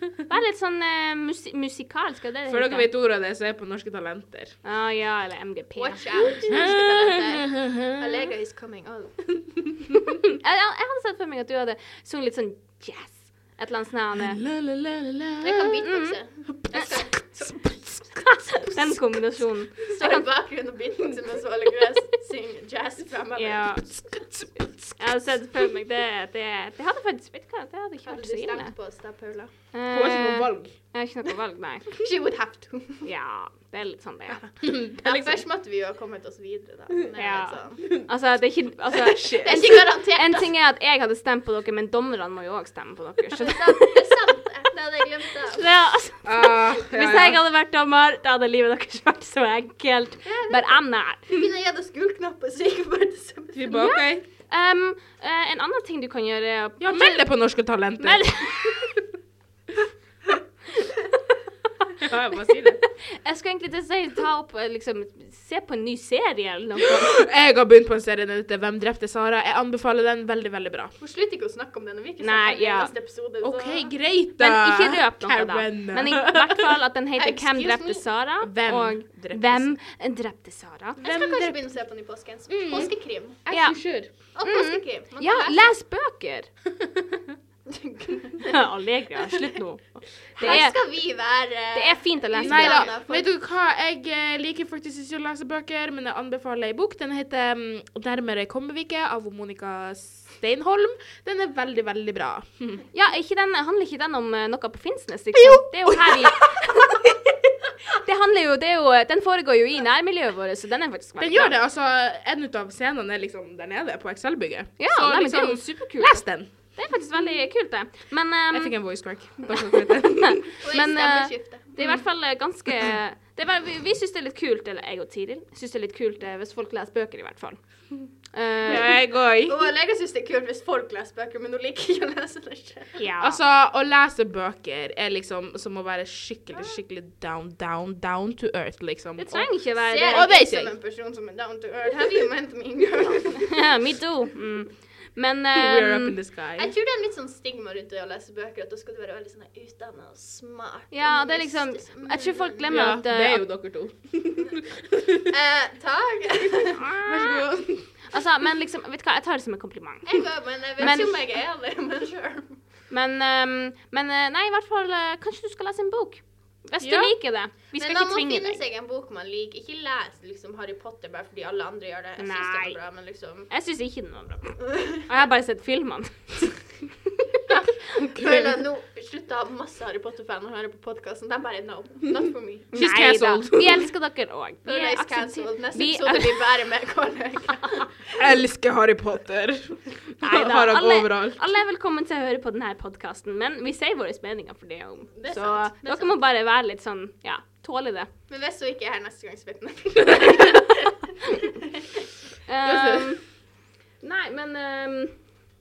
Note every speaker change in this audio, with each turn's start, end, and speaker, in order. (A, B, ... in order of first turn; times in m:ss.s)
0:00.3-0:02.9 A
0:02.5-0:04.6 B
0:04.6-0:06.6 A
0:05.8-0:09.4 C
0:06.5-0:08.3 B
0:10.3-0:14.4 A
0:14.2-0:15.8 B
0:15.4-0:17.8 C
0:15.8-0:16.2 A
0:16.7-0:19.4 B
0:18.2-0:20.3 A
0:19.9-0:24.0 C
0:23.3-0:23.9 A
0:24.0-0:25.0 B
0:25.0-0:28.7 A
0:28.0-0:29.5 C
0:29.7-0:31.9 A
0:29.9-0:30.7 B
0:31.9-0:33.1 C
0:33.0-0:34.4 A
0:34.6-0:35.4 B
0:35.0-0:37.9 C
0:37.2-0:44.0 A
0:38.9-0:39.8 B
0:39.2-0:40.5 C
0:43.4-0:45.7 C
0:45.4-0:51.2 A
0:46.2-0:47.4 B
0:50.2-0:53.9 C
0:53.5-0:54.2 B
0:53.7-0:57.3 A
0:56.8-0:58.4 B
0:58.0-0:58.9 A
1:02.0-1:02.8 B
1:03.1-1:07.2 A
1:06.8-1:10.9 B
1:11.0-1:13.9 C
1:12.2-1:12.9 A
1:13.4-1:16.8 B
1:14.4-1:21.0 A
1:17.2-1:18.0 C
1:18.4-1:19.8 B
1:21.0-1:23.5 C
1:21.0-1:21.6 B
1:22.5-1:24.1 B
1:23.5-1:26.5 A
1:24.3-1:25.7 C
1:27.7-1:28.6 C
1:28.4-1:30.8 A
1:29.2-1:29.6 C
1:30.4-1:33.3 C
1:31.7-1:32.9 A
1:32.4-1:42.8 B
1:42.9-1:47.1 A
1:45.3-1:46.7 B
1:47.9-1:51.5 A
1:51.2-1:56.5 B
1:54.8-2:07.6 A
1:58.5-2:00.4 B
2:00.6-2:01.7 C
2:08.3-2:08.9 A
2:08.6-2:09.6 B
2:09.4-2:13.0 C
2:13.0-2:13.4 A
2:13.2-2:19.6 B
2:19.2-2:20.3 A
2:19.8-2:23.6 C
2:20.1-2:20.7 B
2:23.4-2:26.2 A
2:25.5-2:26.7 B
2:26.6-2:32.9 C
2:30.9-2:33.4 A
2:32.7-2:35.3 B
2:35.2-2:36.8 C
2:36.7-2:37.5 A
2:36.8-2:38.0 B
2:38.0-2:40.2 A
2:40.0-2:42.6 C
2:40.8-2:41.2 A
2:42.9-2:48.6 A
2:46.8-2:47.1 B
2:47.8-2:53.5 C
2:52.2-2:52.8 A
2:53.5-2:56.6 A
2:54.6-2:55.0 C
2:57.5-3:02.9 C
2:58.2-2:58.6 B
3:02.7-3:03.9 B
3:02.7-3:06.5 A
3:04.6-3:08.3 C
3:08.2-3:11.4 B
3:10.2-3:18.1 A
3:15.2-3:16.2 C
3:18.3-3:22.0 C
3:22.5-3:23.2 A
3:22.6-3:23.2 B
3:24.0-3:25.2 A